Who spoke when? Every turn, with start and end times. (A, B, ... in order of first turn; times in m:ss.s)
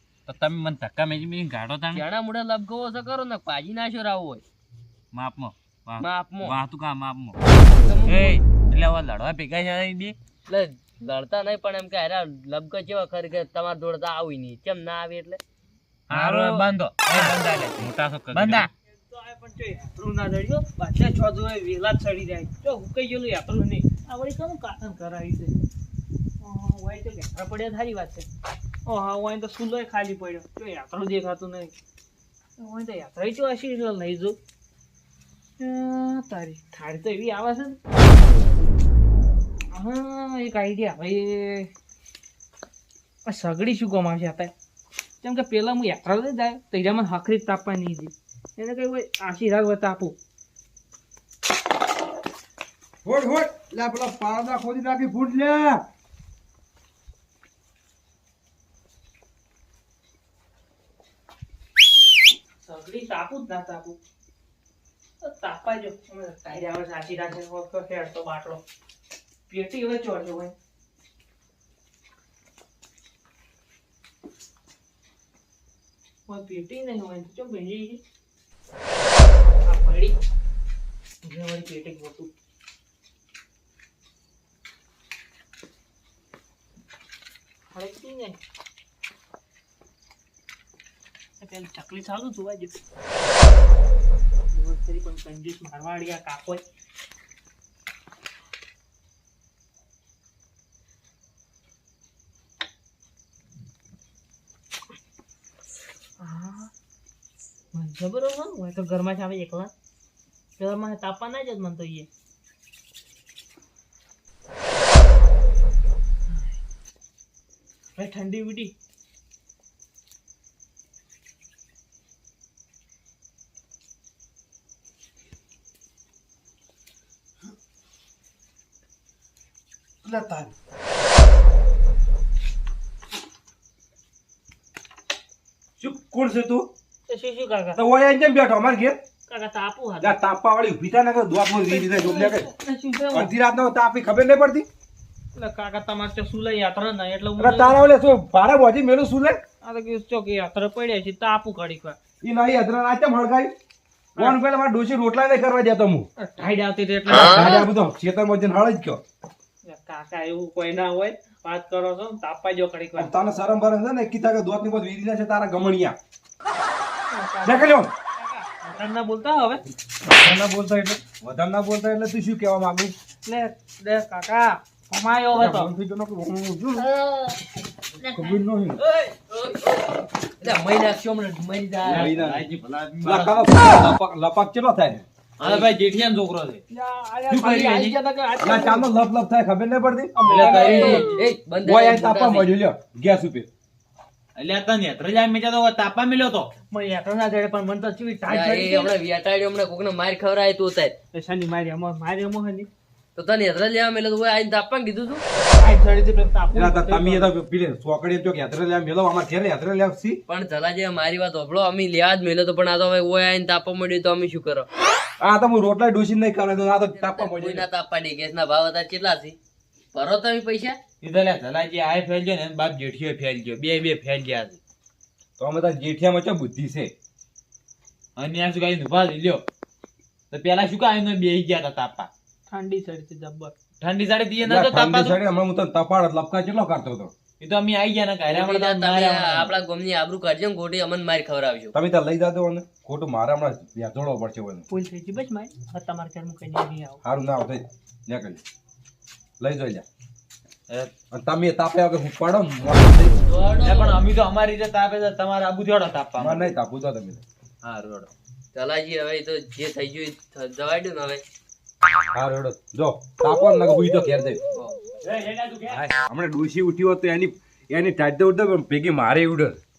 0:00.3-0:01.8 A
0:00.8-0:02.0 B
0:01.9-0:04.4 C
0:05.1-0:07.4 B
0:06.0-0:06.6 C
0:07.8-0:08.4 C
0:08.1-0:10.2 A
0:10.5-0:15.4 C
0:16.1-0:18.7 B
0:16.1-0:18.7 A
0:19.1-0:25.6 D
0:26.4-0:28.3 D
0:28.9-0:31.7 D
0:32.6-0:34.4 D
0:35.6-0:37.8 D
0:39.7-0:41.7 D
0:43.3-0:44.5 D
0:45.2-0:50.2 D
0:53.0-0:55.8 E
1:02.6-1:04.0 D
1:05.2-1:08.6 D
1:09.5-1:10.5 D
1:16.3-1:18.0 D
1:19.7-1:20.1 D
1:21.2-1:22.3 D
1:27.7-1:28.4 D
1:31.4-1:32.7 D
1:34.5-1:36.6 D
1:46.2-1:46.7 D
1:47.7-1:49.7 D
1:50.6-1:52.1 D
1:58.0-1:58.7 D
2:10.0-2:10.5 E
2:15.8-2:16.7 E
2:17.1-2:17.8 D
2:17.8-2:19.0 E
2:19.3-2:20.2 D
2:20.0-2:22.5 E
2:21.5-2:23.3 D
2:23.1-2:24.7 E
2:25.4-2:27.8 D
2:27.4-2:29.4 E
2:29.6-2:32.0 D
2:32.2-2:33.5 E
2:34.2-2:34.4 D
2:34.2-2:36.1 E
2:36.2-2:37.7 D
2:37.1-2:39.0 E
2:39.6-2:43.2 D
2:43.0-2:46.0 E
2:47.1-2:49.6 D
2:47.4-2:47.9 E
2:50.1-2:53.0 E
2:53.2-2:55.7 D
2:55.3-2:56.9 E
2:56.8-2:57.4 C
2:58.1-2:58.8 E
2:59.1-3:02.1 C
3:01.9-3:03.6 A
3:01.9-3:02.4 E
3:03.0-3:05.6 E
3:05.4-3:06.6 A
3:06.7-3:08.9 D
3:07.3-3:11.1 E
3:10.2-3:11.2 D
3:10.4-3:11.0 A
3:10.8-3:12.5 C
3:11.6-3:13.5 E
3:14.4-3:16.5 A
3:16.7-3:18.9 D
3:18.3-3:21.0 C
3:21.1-3:22.7 D
3:23.2-3:25.2 C
3:25.3-3:27.3 D
3:26.5-3:30.2 E
3:30.3-3:34.7 C
3:35.2-3:37.7 E
3:36.9-3:39.4 C
3:39.9-3:40.8 C
3:41.0-3:44.6 A
3:45.4-3:46.9 E
3:48.2-3:49.4 A
3:50.3-3:52.1 A
3:52.5-3:53.5 D
3:53.8-3:55.2 A
3:54.4-3:57.1 E
3:57.4-3:59.6 A
3:58.3-4:01.7 C
4:01.7-4:04.6 E
4:04.7-4:07.0 D
4:07.0-4:08.4 E
4:09.4-4:09.8 E
4:11.1-4:13.1 E
4:13.3-4:14.0 C
4:13.6-4:16.5 A
4:16.2-4:17.2 E
4:17.6-4:18.1 A
4:18.5-4:21.2 C
4:22.1-4:24.4 E
4:25.0-4:25.9 A
4:25.7-4:29.6 E